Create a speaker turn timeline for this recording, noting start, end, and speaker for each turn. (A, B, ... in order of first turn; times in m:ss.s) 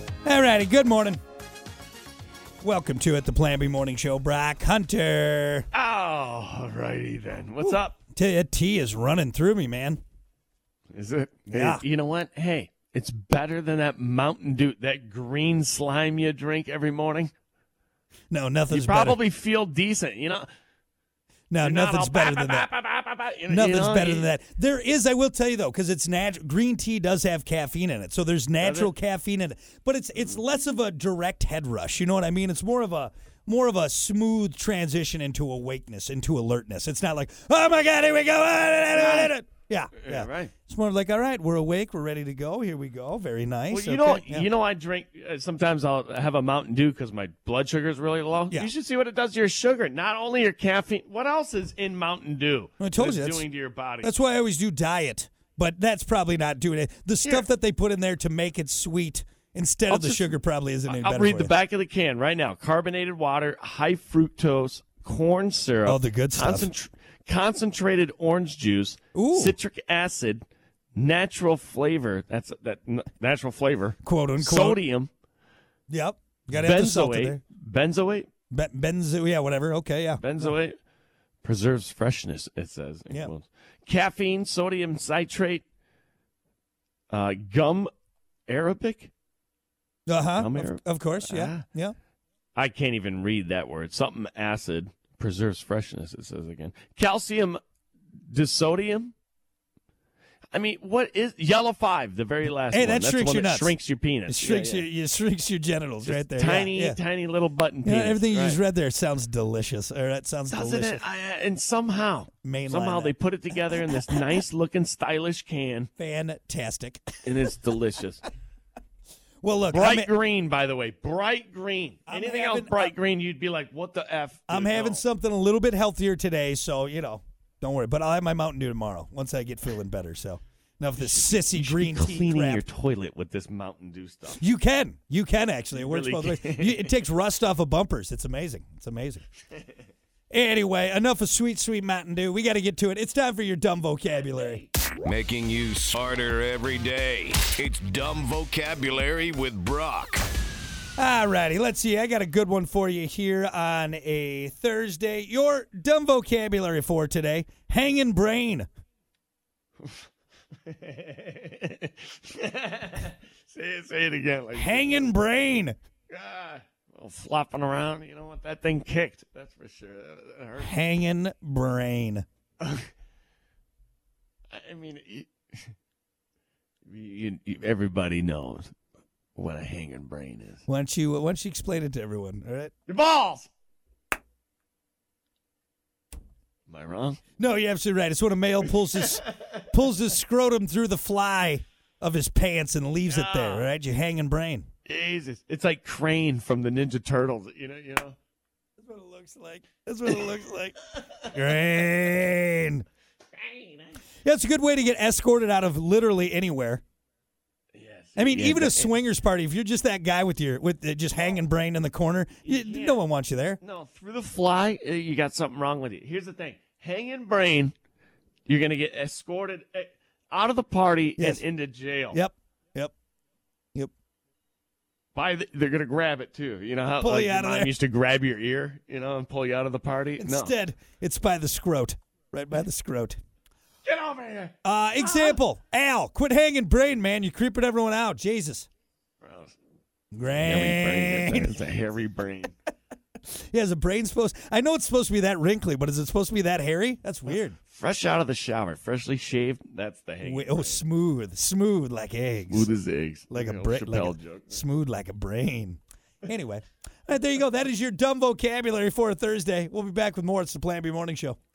0:00.2-0:01.2 A
0:02.6-0:05.6 A
0:05.7-0:08.0 B
0:07.6-0:10.0 A
0:10.9-0:17.3 B
0:11.5-0:11.8 A
0:18.3-0:19.2 A
0:18.7-0:20.5 B
0:21.5-0:22.7 A
0:21.6-0:24.3 B
0:23.5-0:44.5 A
0:28.6-0:28.9 B
0:38.9-0:39.3 B
0:40.0-0:40.5 B
0:43.7-0:54.1 B
0:52.8-0:53.4 A
0:54.0-1:01.6 A
0:59.9-1:15.1 B
1:05.8-1:06.7 A
1:09.1-1:09.6 A
1:14.0-1:14.8 A
1:15.9-1:17.4 A
1:16.5-1:18.3 B
1:18.5-1:20.5 A
1:20.2-1:20.8 B
1:21.4-1:25.6 B
1:27.1-1:27.9 B
1:28.5-1:29.1 B
1:30.1-1:31.9 A
1:30.3-1:31.6 B
1:32.5-1:37.6 B
1:38.3-1:39.1 B
1:40.5-1:44.8 B
1:42.7-1:43.8 A
1:44.3-1:47.0 A
1:46.0-1:48.6 B
1:47.8-1:51.0 A
1:50.5-1:55.9 B
1:52.4-1:53.1 A
1:56.0-1:57.0 A
1:57.2-1:58.2 B
1:59.4-2:00.1 A
1:59.7-2:05.0 B
2:02.1-2:02.9 A
2:04.5-2:12.6 A
2:11.0-2:14.4 B
2:14.3-2:19.2 A
2:15.7-2:16.9 B
2:20.3-2:24.7 A
2:24.3-2:24.7 B
2:25.0-2:30.2 C
2:31.0-2:38.7 A
2:40.6-2:45.1 B
2:44.5-2:45.8 A
2:46.1-2:50.8 B
2:50.6-2:52.2 A
2:52.6-2:52.9 B
2:54.5-2:55.7 B
2:56.8-2:58.7 B
2:59.3-3:00.6 B
3:00.7-3:02.7 A
3:02.9-3:03.5 B
3:06.7-3:07.2 B
3:07.4-3:14.6 A
3:13.1-3:13.7 B
3:14.8-3:18.2 B
3:18.8-3:22.8 A
3:23.3-3:24.0 B
3:24.2-3:26.8 A
3:27.7-3:28.9 B
3:28.2-3:33.6 A
3:32.4-3:33.0 B
3:33.6-3:37.7 B
3:38.4-3:42.2 B
3:42.1-3:42.9 A
3:45.1-3:50.6 B
3:47.0-3:47.7 A
3:50.2-3:53.2 A
3:53.8-3:55.4 B
3:54.6-3:58.7 A
3:59.2-3:59.6 B
4:00.1-4:01.6 A
4:00.2-4:02.6 B
4:03.3-4:07.6 A
4:07.6-4:10.8 B
4:10.2-4:12.7 A
4:12.5-4:14.6 B
4:13.3-4:21.4 A